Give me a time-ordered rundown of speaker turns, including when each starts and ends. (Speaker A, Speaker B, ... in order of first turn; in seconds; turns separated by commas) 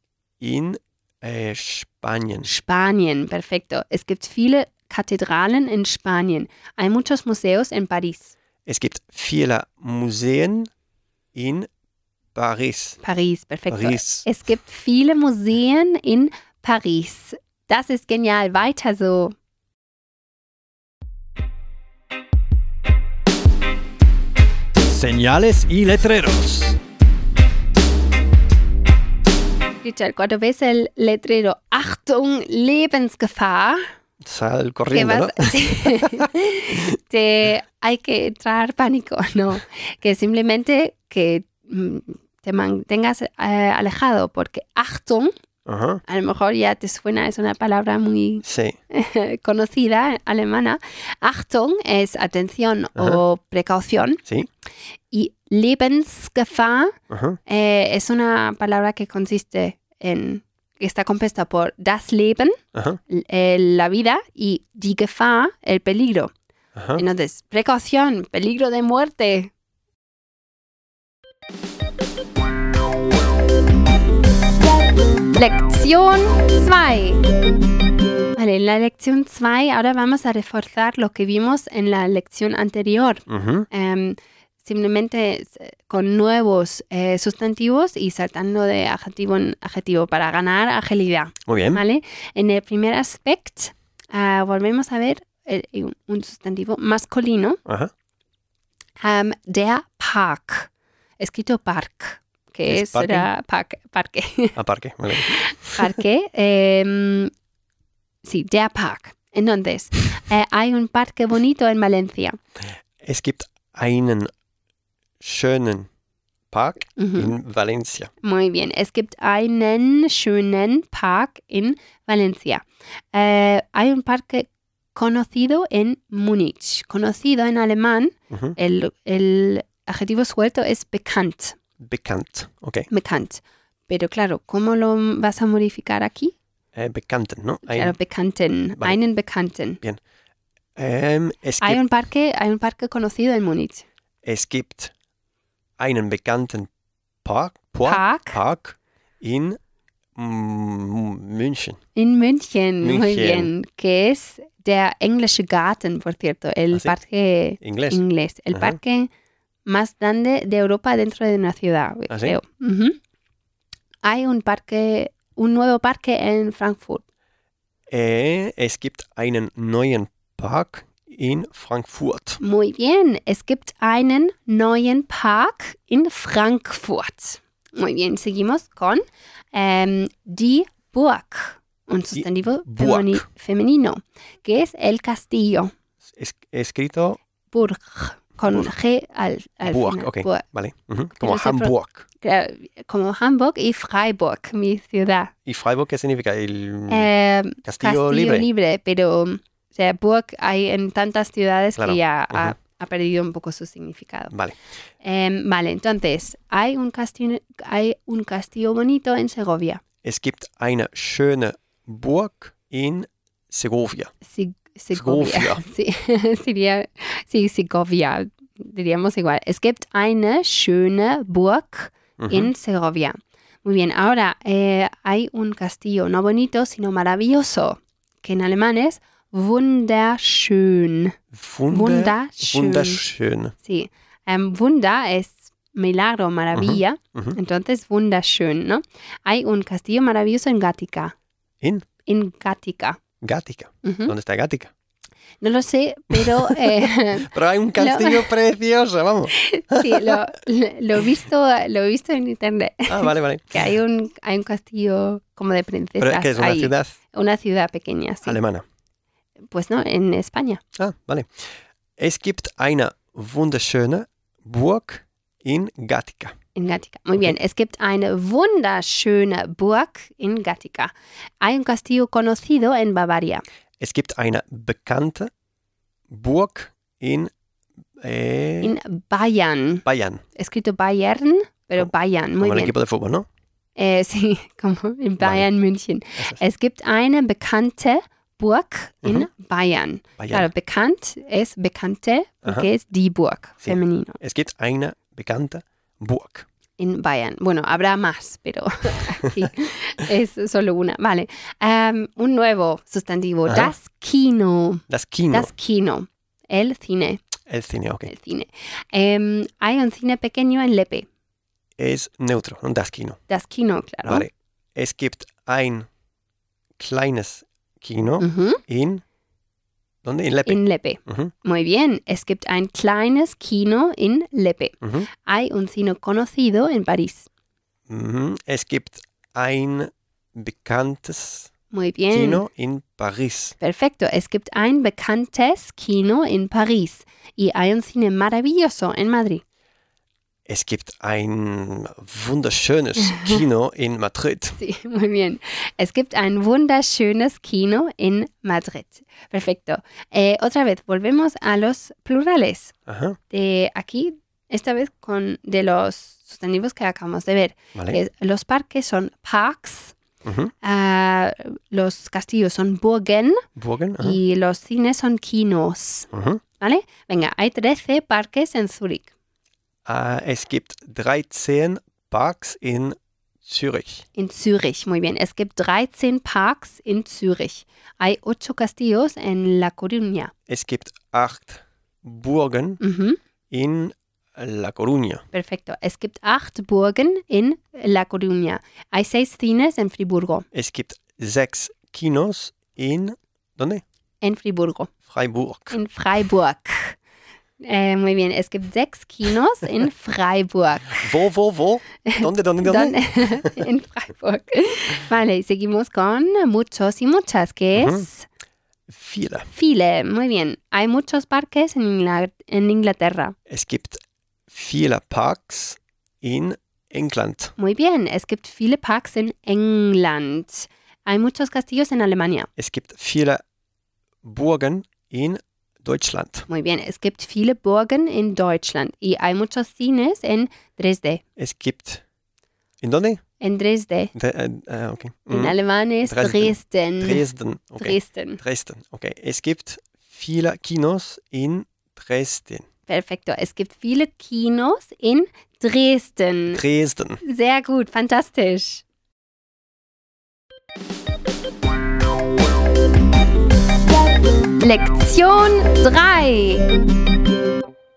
Speaker A: 0.4-2.5, Speaker B: 2.4-8.3, Speaker A: 8.7-10.7, Speaker A: 11.3-11.7, Speaker A: 12.3-13.0, Speaker B: 13.0-19.4, Speaker A: 13.7-14.3, Speaker A: 24.8-26.8, Speaker B: 29.8-33.9, Speaker A: 34.2-36.8, Speaker B: 34.9-45.3, Speaker A: 45.7-46.0, Speaker B: 46.1-54.2, Speaker A: 48.4-48.8, Speaker B: 55.1-62.6, Speaker A: 57.1-57.4, Speaker A: 62.7-63.0, Speaker B: 63.1-66.3, Speaker A: 66.8-67.0, Speaker B: 67.0-69.5, Speaker B: 75.4-77.2, Speaker B: 78.4-97.6, Speaker A: 83.3-83.7, Speaker A: 91.5-91.8, Speaker A: 97.7-97.9, Speaker B: 99.0-104.6, Speaker A: 102.7-103.3, Speaker A: 104.6-105.9, Speaker B: 105.1-107.3, Speaker B: 108.2-112.4, Speaker A: 113.0-114.3, Speaker A: 115.2-115.9, Speaker A: 116.5-118.1, Speaker B: 117.0-117.3, Speaker B: 118.2-131.6, Speaker A: 128.3-128.6, Speaker A: 131.8-132.9, Speaker B: 132.9-136.3, Speaker A: 136.8-138.0, Speaker B: 137.7-139.8, Speaker A: 140.8-141.8, Speaker B: 141.6-143.8, Speaker A: 144.2-144.9, Speaker A: 145.8-146.7, Speaker A: 147.2-149.6, Speaker B: 147.8-148.4, Speaker A: 150.2-151.8, Speaker B: 152.0-159.1, Speaker A: 152.8-153.5, Speaker A: 157.6-158.0, Speaker A: 158.5-158.8, Speaker B: 159.7-163.0, Speaker A: 162.1-162.4, Speaker B: 164.0-167.0, Speaker A: 167.9-172.4, Speaker B: 172.4-185.7, Speaker A: 182.1-183.2, Speaker A: 186.1-187.2, Speaker B: 187.5-190.4, Speaker A: 189.7-192.1, Speaker B: 191.2-195.3, Speaker A: 195.5-197.1, Speaker B: 196.9-204.3, Speaker A: 197.7-198.5, Speaker A: 201.8-202.6, Speaker A: 204.3-204.6, Speaker B: 205.0-209.8, Speaker A: 210.0-214.1, Speaker B: 214.2-231.2, Speaker A: 214.9-215.6, Speaker A: 222.2-222.5, Speaker A: 231.3-233.6, Speaker B: 231.7-233.0, Speaker B: 233.6-241.1, Speaker A: 236.5-237.4, Speaker B: 242.1-243.0, Speaker A: 243.2-244.7, Speaker B: 243.8-244.1, Speaker B: 245.4-248.3, Speaker A: 246.1-250.2, Speaker B: 249.3-258.4, Speaker A: 252.9-253.7, Speaker A: 256.0-257.0, Speaker A: 258.2-258.6, Speaker B: 259.5-260.6, Speaker A: 260.8-261.4, Speaker A: 262.0-266.4, Speaker B: 266.6-273.4, Speaker A: 273.8-275.3, Speaker A: 276.1-277.3, Speaker A: 278.0-278.8, Speaker B: 278.6-282.7, Speaker A: 279.9-280.2, Speaker A: 281.8-283.3, Speaker B: 283.8-294.2, Speaker A: 285.2-285.5, Speaker A: 286.2-286.4, Speaker A: 289.0-289.3, Speaker A: 290.2-290.5, Speaker A: 293.6-296.5, Speaker B: 296.8-307.2, Speaker A: 303.5-303.7, Speaker A: 304.9-305.5, Speaker A: 307.5-308.1, Speaker B: 308.1-311.1, Speaker A: 311.8-313.2, Speaker B: 313.3-314.3, Speaker A: 314.1-315.9, Speaker A: 316.8-319.0, Speaker B: 318.2-318.6, Speaker A: 320.0-321.3, Speaker B: 320.5-327.3, Speaker A: 324.8-325.1, Speaker A: 327.9-331.5, Speaker B: 331.7-332.4, Speaker A: 332.1-333.6, Speaker B: 333.6-339.4, Speaker A: 340.5-344.6, Speaker B: 343.0-343.4, Speaker B: 344.6-352.8, Speaker A: 352.9-353.2, Speaker B: 353.3-360.0, Speaker A: 357.8-358.0, Speaker A: 360.2-360.5, Speaker B: 360.6-363.5, Speaker A: 363.6-364.2, Speaker B: 364.0-366.1, Speaker A: 366.1-366.4, Speaker B: 366.6-369.1, Speaker A: 369.9-374.1, Speaker B: 374.2-380.3, Speaker A: 380.5-382.8, Speaker B: 382.8-383.2, Speaker A: 383.5-385.2, Speaker B: 385.3-390.5, Speaker A: 390.5-393.8, Speaker B: 394.2-394.9, Speaker A: 395.1-395.8, Speaker B: 395.7-397.0, Speaker B: 397.6-401.1, Speaker A: 401.0-403.6, Speaker B: 402.1-408.3, Speaker A: 407.8-408.1, Speaker A: 408.9-409.5, Speaker B: 409.5-413.4, Speaker A: 413.5-417.5, Speaker B: 417.6-422.5, Speaker A: 422.6-423.4, Speaker A: 424.2-426.5, Speaker B: 426.5-431.2, Speaker A: 431.4-432.0, Speaker A: 432.8-433.2, Speaker B: 433.4-434.1, Speaker A: 434.1-442.7, Speaker B: 435.3-437.2, Speaker B: 437.8-438.4, Speaker B: 442.9-446.6, Speaker A: 446.5-447.2, Speaker B: 447.2-448.8, Speaker B: 454.6-456.8